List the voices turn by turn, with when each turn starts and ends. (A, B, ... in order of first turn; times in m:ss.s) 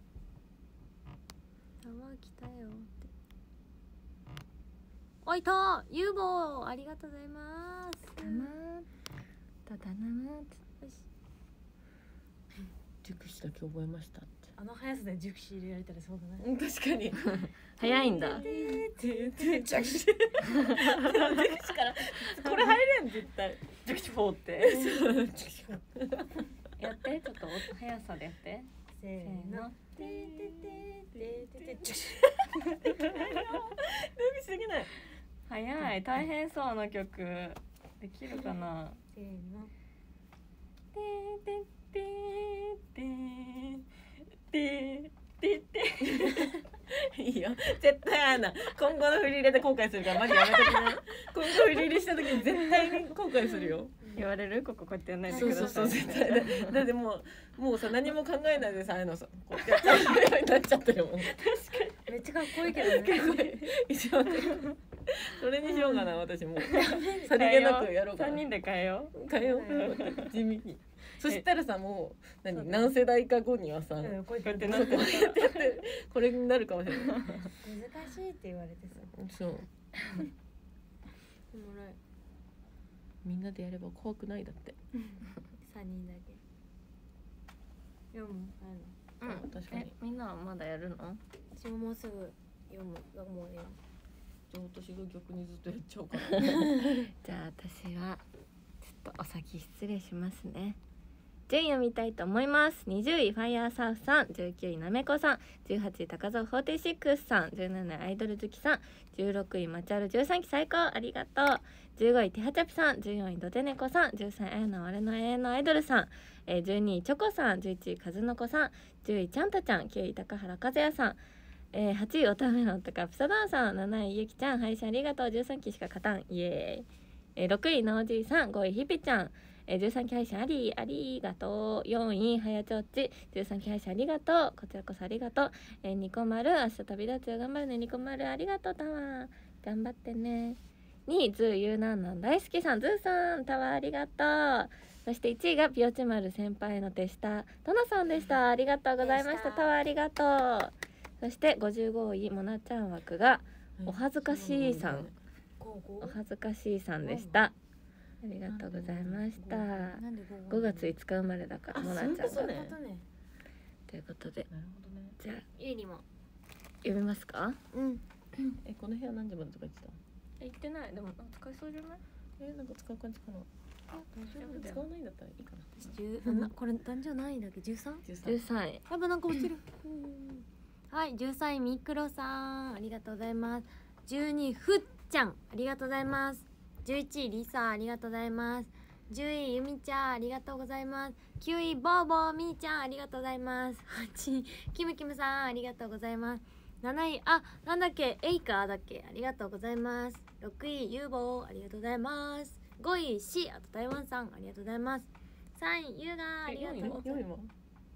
0:01.8-0:03.1 A
0:05.2-0:08.5 A
0:08.2-0:08.9 B
0:09.6-0:10.6 B
0:10.8-0:11.0 A
0:13.0-0:14.5 C
0:14.6-0:16.5 A
0:16.4-0:23.7 C
0:17.3-0:18.4 B
0:17.8-0:20.1 A
0:20.5-0:21.5 B
0:22.3-0:22.7 B
0:23.8-0:25.0 B
0:24.6-0:26.5 C
0:26.8-0:29.8 B
0:29.0-0:32.4 A
0:30.0-0:34.9 C
0:32.6-0:33.1 B
0:35.5-0:39.0 B
0:38.3-0:39.7 A
0:40.9-0:43.8 B
0:44.5-0:46.6 B
0:46.0-0:53.9 C
0:50.5-0:50.9 B
0:52.5-0:53.0 B
0:54.1-0:56.8 B
0:55.3-0:55.9 A
0:55.3-1:01.4 C
0:59.7-1:00.1 B
1:01.2-1:02.0 B
1:02.0-1:03.2 A
1:02.7-1:08.5 C
1:02.8-1:03.6 B
1:04.4-1:04.7 B
1:06.6-1:09.2 B
1:06.7-1:07.3 A
1:09.1-1:17.4 C
1:09.3-1:10.0 A
1:09.7-1:10.3 B
1:12.5-1:12.9 B
1:14.0-1:15.3 A
1:14.4-1:15.7 B
1:17.0-1:17.5 B
1:17.6-1:19.1 A
1:19.1-1:19.7 C
1:21.5-1:22.0 A
1:23.2-1:24.8 C
1:25.1-1:26.4 A
1:28.1-1:29.0 A
1:29.2-1:31.2 B
1:29.2-1:29.9 C
1:31.5-1:33.8 A
1:34.5-1:37.1 C
1:37.2-1:38.2 B
1:38.8-1:40.8 B
1:41.5-2:01.2 B
2:01.7-2:35.1 B
2:29.0-2:29.7 A
2:33.8-2:35.1 C
2:35.6-2:36.2 A
2:36.0-2:37.5 B
2:37.0-2:37.5 A
2:38.2-2:42.5 B
2:38.5-2:39.8 C
2:39.9-2:40.9 A
2:41.7-2:42.8 C
2:42.1-2:43.0 A
2:43.9-2:44.5 B
2:44.5-2:45.2 C
2:45.5-2:46.0 A
2:46.8-2:47.6 B
2:47.7-2:48.0 A
2:48.6-2:50.0 C
2:50.4-2:52.0 B
2:52.4-2:53.5 C
2:53.9-2:54.4 A
2:54.3-2:54.9 B
2:54.3-2:56.5 C
2:55.8-2:58.0 A
2:58.0-2:58.4 C
2:58.2-2:58.8 B
2:58.9-3:27.0 A
3:26.5-3:27.1 B
3:26.8-3:27.5 C